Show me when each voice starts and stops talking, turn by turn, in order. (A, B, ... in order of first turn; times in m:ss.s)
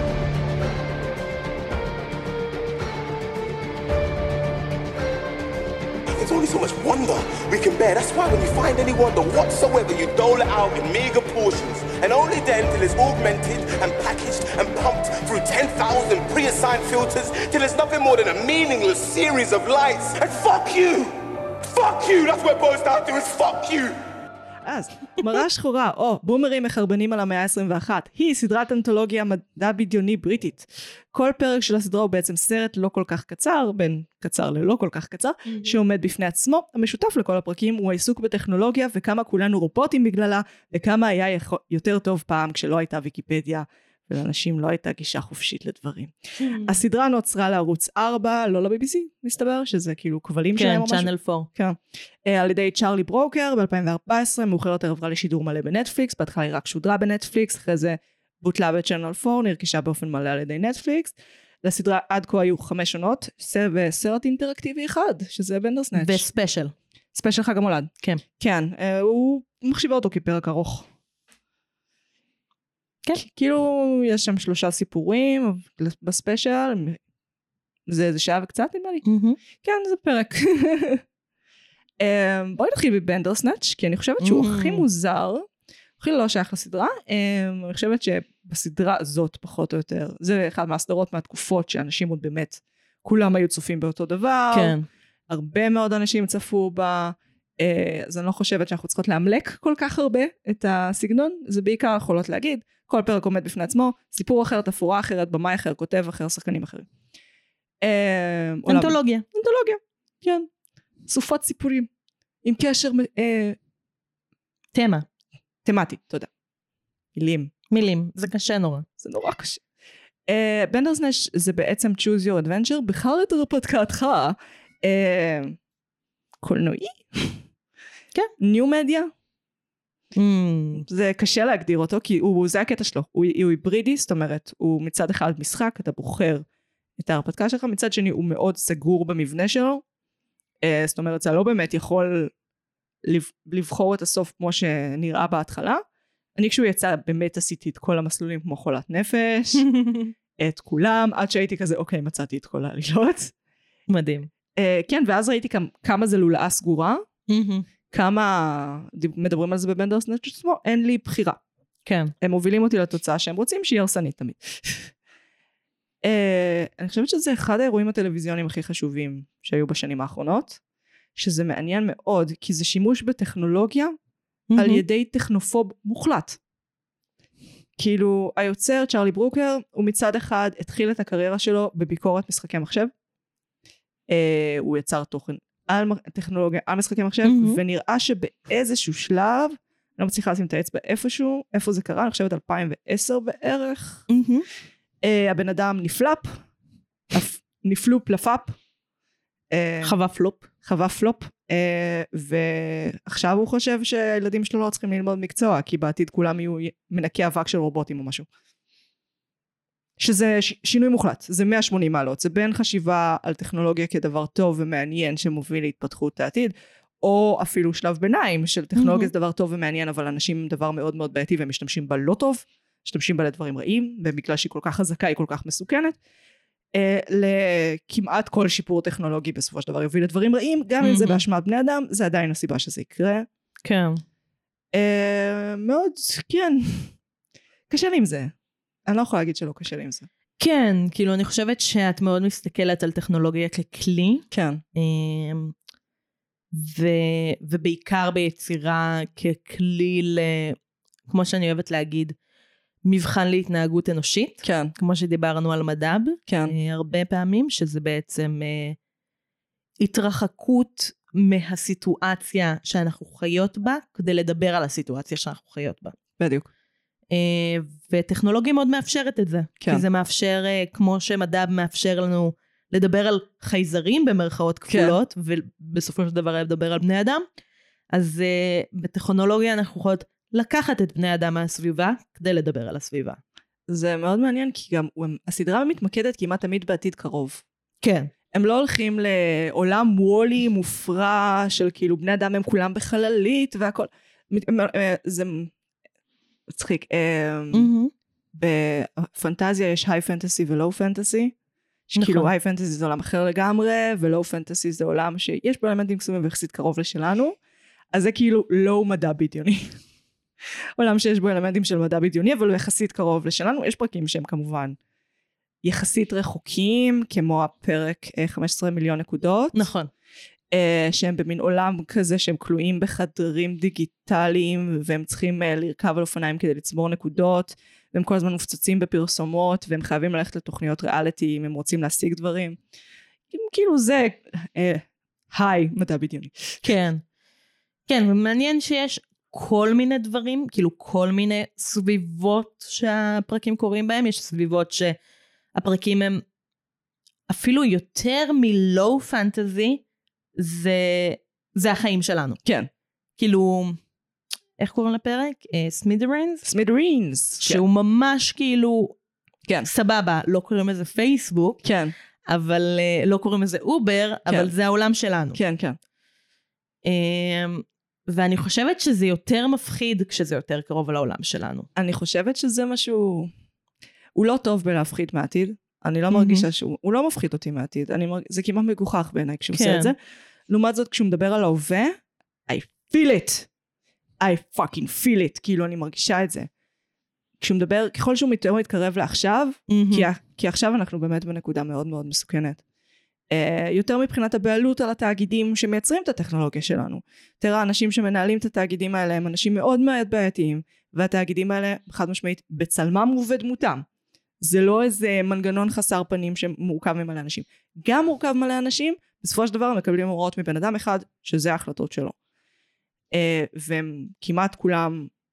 0:06.2-0:24.0 A
0:24.6-1:06.2 B
0:35.4-0:35.8 C
0:46.4-0:46.8 C
0:50.6-0:51.5 C
1:05.9-1:06.7 C
1:07.1-1:10.9 B
1:13.1-1:17.0 B
1:17.9-1:19.0 B
1:19.0-1:19.4 C
1:19.6-1:21.0 B
1:22.0-1:25.4 B
1:24.2-1:24.8 C
1:26.0-1:34.8 B
1:34.5-1:34.8 C
1:35.3-1:46.9 B
1:47.8-1:50.5 B
1:48.7-1:49.2 C
1:51.1-1:51.9 B
1:52.4-1:53.6 B
1:54.7-1:55.0 C
1:55.6-1:56.3 B
1:57.1-1:57.5 B
1:57.7-1:58.8 C
1:59.0-1:59.6 B
2:00.3-2:05.6 B
2:06.4-2:07.4 B
2:08.4-2:09.1 B
2:10.1-2:10.8 C
2:10.8-2:16.4 B
2:17.0-2:19.8 B
2:20.6-2:22.3 B
2:23.0-2:25.8 B
2:26.4-2:29.6 B
2:29.6-2:30.1 C
2:30.4-2:33.3 B
2:33.9-2:34.3 C
2:34.6-2:37.0 B
2:37.3-2:37.6 C
2:37.9-2:41.4 B
2:41.8-2:42.1 C
2:42.2-2:44.9 B
2:46.0-2:50.6 B
2:51.2-2:53.9 B
2:54.5-2:54.8 C
2:54.6-2:56.4 B
2:57.8-3:02.9 B
3:04.1-3:14.1 B
3:07.2-3:07.6 C
3:14.1-3:14.4 C
3:15.0-3:16.4 B
3:17.1-3:18.6 B
3:19.5-3:19.9 B
3:19.8-3:20.5 C
3:20.6-3:28.3 B
3:30.0-3:46.0 B
3:38.8-3:39.1 C
3:46.7-3:53.3 B
3:50.8-3:51.2 C
3:53.6-3:54.0 C
3:54.7-3:56.9 B
3:57.7-3:58.3 B
3:58.9-4:00.1 B
4:00.4-4:05.5 C
4:04.3-4:04.6 B
4:06.5-4:10.6 C
4:11.1-4:12.2 C
4:12.8-4:18.8 C
4:14.4-4:14.7 B
4:16.3-4:16.5 B
4:19.8-4:25.9 C
4:26.2-4:26.5 B
4:27.1-4:37.2 C
4:34.7-4:35.0 B
4:37.9-4:43.2 C
4:43.7-4:47.4 B
4:47.8-4:48.1 C
4:48.3-4:55.5 B
4:56.5-4:57.7 B
4:57.5-4:57.9 C
4:58.4-5:01.3 B
5:01.9-5:07.4 B
5:02.0-5:02.3 C
5:07.9-5:09.7 B
5:10.8-5:14.8 B
5:15.6-5:19.7 B
5:19.5-5:19.9 C
5:20.5-5:32.6 B
5:33.3-5:36.7 B
5:36.6-5:37.0 C
5:37.9-5:45.0 C
5:45.5-5:46.2 C
5:47.3-5:49.8 C
5:50.4-5:52.4 C
5:53.2-5:53.8 C
5:54.6-5:56.4 C
5:56.4-5:57.6 B
5:57.4-5:58.9 C
5:59.6-6:01.6 C
6:01.6-6:01.9 B
6:02.3-6:05.4 C
6:05.3-6:05.8 B
6:06.8-6:11.7 C
6:11.8-6:13.3 B
6:14.2-6:20.0 B
6:16.1-6:16.4 C
6:19.5-6:19.9 C
6:20.5-6:21.9 B
6:22.5-6:23.5 B
6:24.2-6:26.5 B
6:27.4-6:32.6 B
6:29.7-6:30.1 C
6:33.3-6:43.8 B
6:44.4-6:52.1 B
6:53.1-6:55.1 B